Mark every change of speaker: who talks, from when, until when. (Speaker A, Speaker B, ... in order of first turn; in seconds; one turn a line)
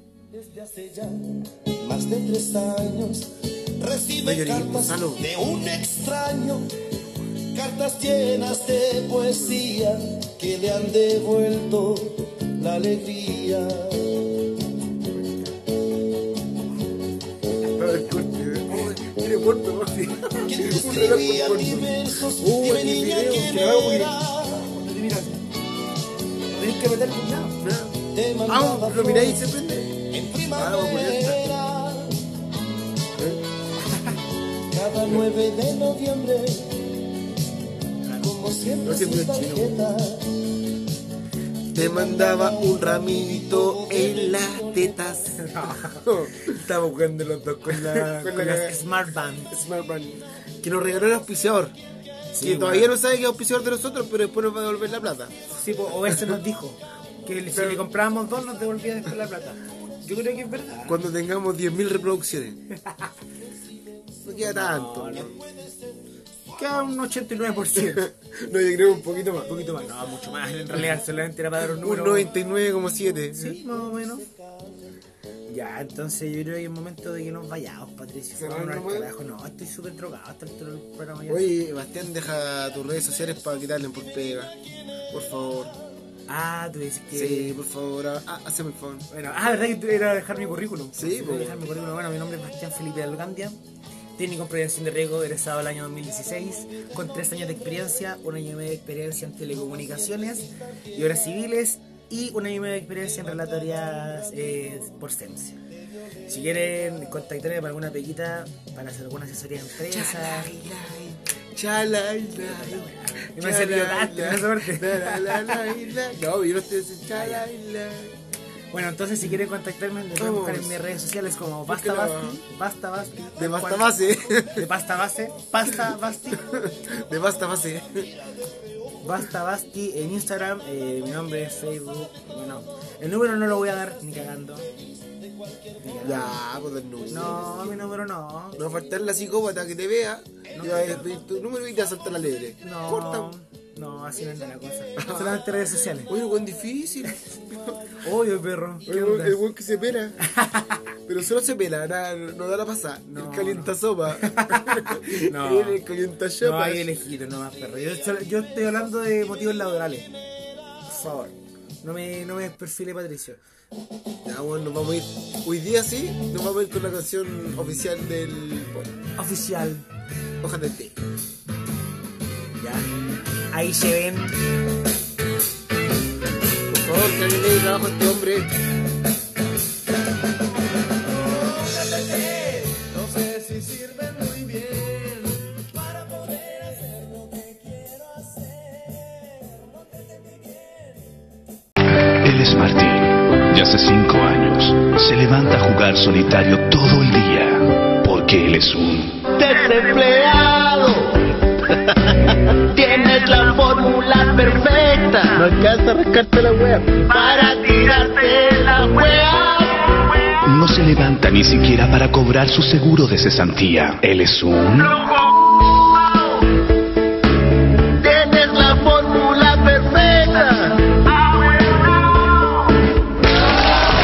Speaker A: 0.3-6.7
Speaker B: 4.2-5.2
Speaker A: 7.5-14.4
Speaker B: 9.3-9.6
Speaker B: 17.6-22.0
Speaker A: 20.4-24.7
Speaker C: 22.4-25.4
Speaker C: 26.5-27.6
Speaker B: 27.6-31.5
Speaker A: 28.1-29.5
Speaker A: 30.0-32.3
Speaker C: 33.9-34.2
Speaker A: 34.7-37.0
Speaker B: 35.0-35.3
Speaker C: 38.0-38.3
Speaker A: 38.2-40.5
Speaker B: 38.8-39.8
Speaker B: 41.7-48.9
Speaker A: 41.7-45.4
Speaker C: 45.4-46.5
Speaker C: 47.6-49.6
Speaker B: 49.5-51.7
Speaker C: 52.3-53.0
Speaker B: 52.4-56.4
Speaker C: 55.5-61.0
Speaker B: 57.5-57.9
Speaker B: 60.9-62.6
Speaker C: 62.7-63.1
Speaker B: 64.2-65.5
Speaker C: 64.4-65.3
Speaker C: 66.5-68.1
Speaker B: 67.7-69.5
Speaker C: 69.5-72.3
Speaker B: 71.6-73.6
Speaker C: 73.3-74.3
Speaker A: 73.6-74.8
Speaker C: 75.5-81.5
Speaker B: 78.3-79.1
Speaker B: 81.3-84.5
Speaker B: 85.1-85.8
Speaker C: 86.3-87.5
Speaker B: 87.1-89.1
Speaker C: 89.1-93.6
Speaker B: 90.9-91.6
Speaker C: 94.2-105.6
Speaker C: 106.2-110.5
Speaker B: 109.7-118.2
Speaker C: 112.4-115.7
Speaker C: 117.1-117.4
Speaker C: 118.7-126.5
Speaker B: 120.2-120.8
Speaker B: 121.7-122.4
Speaker B: 123.4-124.7
Speaker B: 126.4-128.1
Speaker A: 128.0-128.6
Speaker C: 129.0-134.7
Speaker A: 135.2-135.8
Speaker C: 135.8-136.4
Speaker B: 136.0-137.9
Speaker C: 137.1-138.6
Speaker B: 138.6-143.3
Speaker C: 140.5-141.1
Speaker C: 142.6-146.1
Speaker B: 145.0-145.4
Speaker B: 146.1-147.9
Speaker C: 148.0-149.4
Speaker B: 148.8-150.2
Speaker C: 150.2-150.8
Speaker B: 151.1-156.9
Speaker C: 153.1-155.8
Speaker C: 156.4-160.1
Speaker C: 160.9-163.4
Speaker B: 164.2-168.9
Speaker C: 169.2-169.9
Speaker B: 170.4-171.0
Speaker C: 172.6-172.9
Speaker C: 173.5-174.4
Speaker B: 176.7-178.5
Speaker A: 181.3-191.0
Speaker D: 192.2-199.2
Speaker E: 199.3-201.0
Speaker B: 199.5-199.9
Speaker E: 202.7-205.5
Speaker B: 205.2-209.5
Speaker E: 207.1-210.6
Speaker D: 210.5-214.9
Speaker E: 214.7-215.1
Speaker B: 218.0-220.7
Speaker E: 218.1-220.6
Speaker E: 221.2-221.9